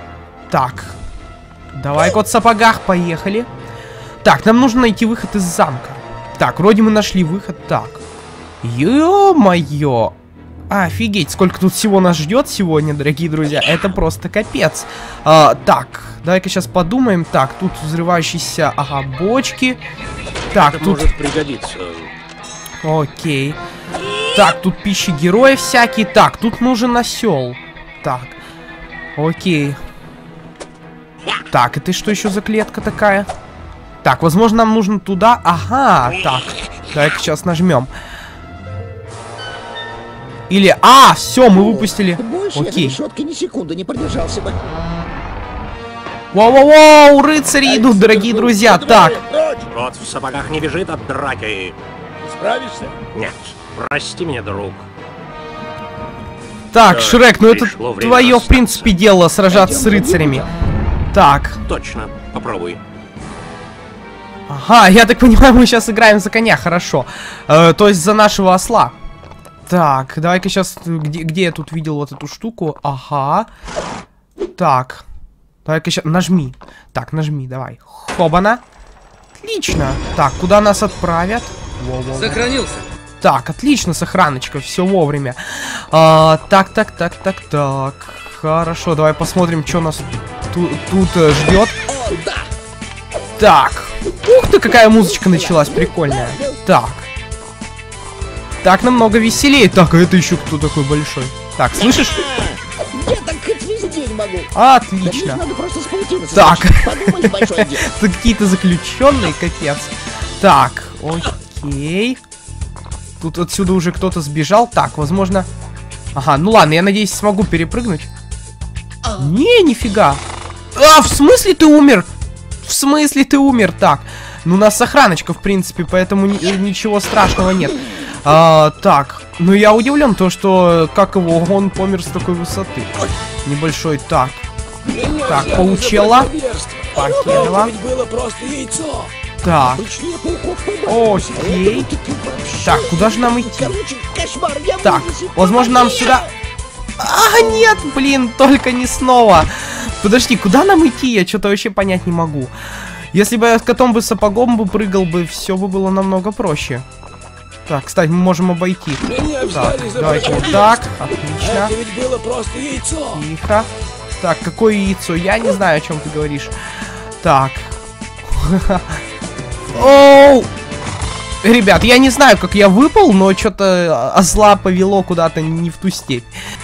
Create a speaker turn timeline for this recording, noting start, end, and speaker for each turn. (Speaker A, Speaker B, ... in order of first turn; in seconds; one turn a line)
Speaker A: 0.5-1.0
Speaker A: 1.7-3.5
Speaker A: 4.2-8.0
Speaker A: 8.6-10.1
Speaker A: 10.7-19.8
Speaker A: 20.5-21.1
Speaker B: 20.5-22.1
Speaker A: 22.8-23.6
Speaker A: 24.2-28.4
Speaker A: 29.1-29.8
Speaker A: 31.5-33.3
Speaker A: 34.0-37.9
Speaker A: 40.5-43.0
Speaker C: 41.5-44.6
Speaker A: 46.3-49.2
Speaker D: 49.2-49.7
Speaker B: 49.7-51.8
Speaker D: 52.2-53.0
Speaker B: 53.1-54.9
Speaker A: 56.7-60.5
Speaker B: 56.8-59.0
Speaker C: 59.5-60.5
Speaker A: 61.1-61.6
Speaker B: 61.6-62.8
Speaker A: 64.5-68.9
Speaker A: 69.7-73.5
Speaker A: 74.6-75.0
Speaker A: 75.6-78.6
Speaker A: 79.3-82.6
Speaker A: 83.2-91.8
Speaker C: 91.9-92.5
Speaker A: 93.4-97.1
Speaker C: 94.9-96.6
Speaker A: 98.6-102.3
Speaker C: 101.8-104.5
Speaker A: 104.5-105.4
Speaker C: 105.0-107.9
Speaker A: 106.3-112.2
Speaker A: 113.2-115.5
Speaker A: 116.1-118.1
Speaker A: 119.1-120.2
Speaker A: 120.7-122.1
Speaker A: 122.6-134.4
Speaker D: 134.8-139.1
Speaker A: 135.2-136.3
Speaker A: 136.9-137.7
Speaker A: 139.4-139.8
Speaker C: 139.6-146.3
Speaker A: 140.8-141.9
Speaker A: 142.6-143.8
Speaker A: 144.8-146.3
Speaker A: 147.0-156.8
Speaker A: 157.7-161.8
Speaker D: 159.0-160.8
Speaker D: 161.4-163.2
Speaker A: 163.1-166.6
Speaker A: 167.2-169.0
Speaker A: 169.7-170.5
Speaker A: 171.4-176.3